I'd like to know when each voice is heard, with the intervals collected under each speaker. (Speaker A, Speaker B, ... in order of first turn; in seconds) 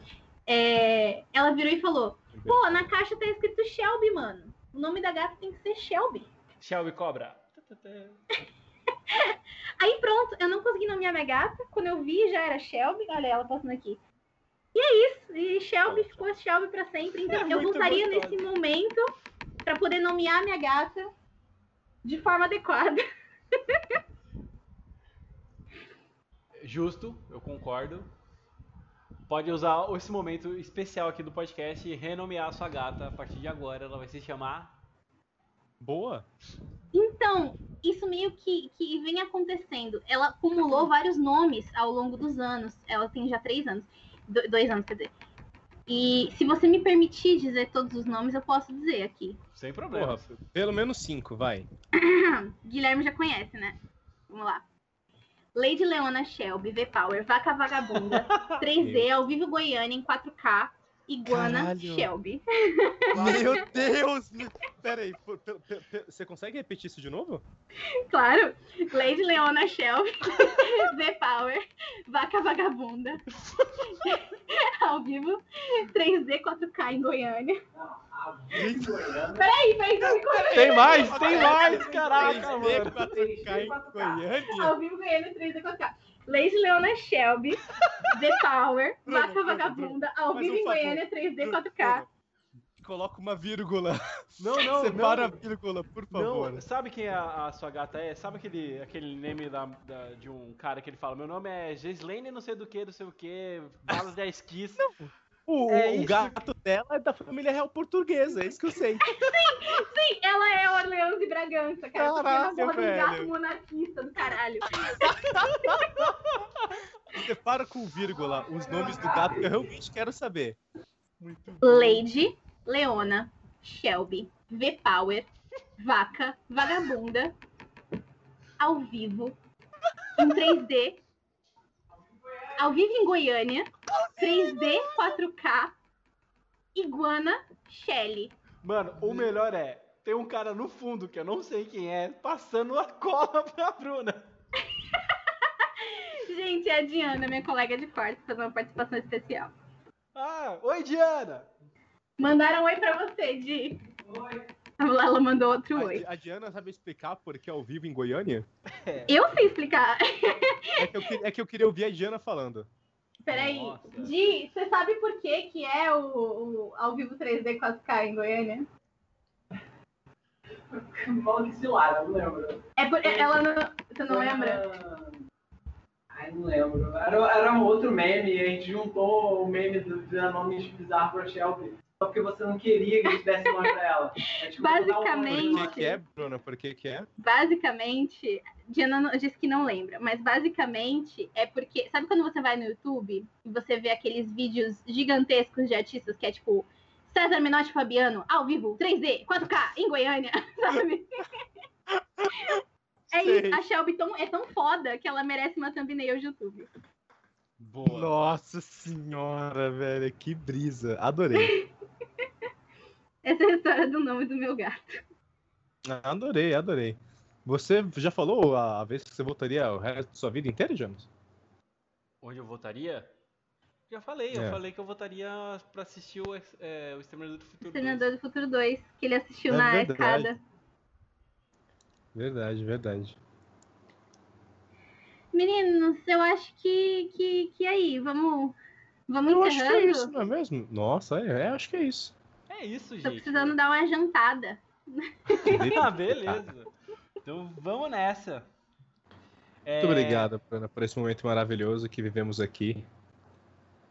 Speaker A: 0.5-6.3, 9.1-14.0, 14.7-19.1, 19.6-21.1, 22.0-23.0, 36.9-45.1, 45.9-49.4, 52.0-53.8, 54.3-54.6, 55.5-63.0, 68.1-73.2, 73.8-77.6, 79.4-81.2, 84.5-92.0, 109.1-114.9, 121.6-127.3, 128.6-129.4, 130.2-131.0, 132.6-135.7, 136.7-138.3, 145.8-149.5, 152.2-153.8, 154.8-156.1, 159.1-160.9, 163.2-168.7, 172.8-174.6, 184.4-186.0, 187.2-201.3, 203.1-206.7, 213.2-215.0, 227.6-230.4, 235.3-238.6, 239.1-240.1, 243.0-245.7
Speaker B: 2.3-2.9, 15.8-16.3, 35.8-36.3, 49.9-51.7, 58.8-59.1, 61.2-62.1, 63.1-67.4, 78.5-79.0, 81.1-84.8, 89.0-92.1, 92.8-96.6, 104.8-109.1, 112.0-113.3, 114.8-116.0, 117.1-120.6, 139.0-139.3, 155.7-158.5, 160.8-162.7, 185.3-187.1, 201.9-203.6, 207.8-211.5, 215.8-221.1, 224.3-224.6, 229.5-230.3, 232.1-233.2, 239.3-242.1, 245.4-246.5, 249.8-252.9
Speaker C: 6.6-8.2, 17.3-18.4, 26.6-28.1, 29.3-34.8, 49.5-50.4, 57.9-58.6, 63.1-63.8, 80.5-83.2, 94.4-95.4, 96.1-105.0, 105.7-106.4, 115.3-116.8, 121.2-122.0, 138.6-144.3, 150.1-151.5, 158.7-159.1, 163.3-164.1, 207.6-208.2, 222.2-223.1, 223.9-228.1, 242.5-243.6, 245.4-246.7, 247.2-248.4, 249.6-250.3
Speaker D: 77.7-79.5, 80.9-84.3, 118.4-119.3, 154.1-154.4, 170.7-173.4, 174.1-175.2, 176.1-185.9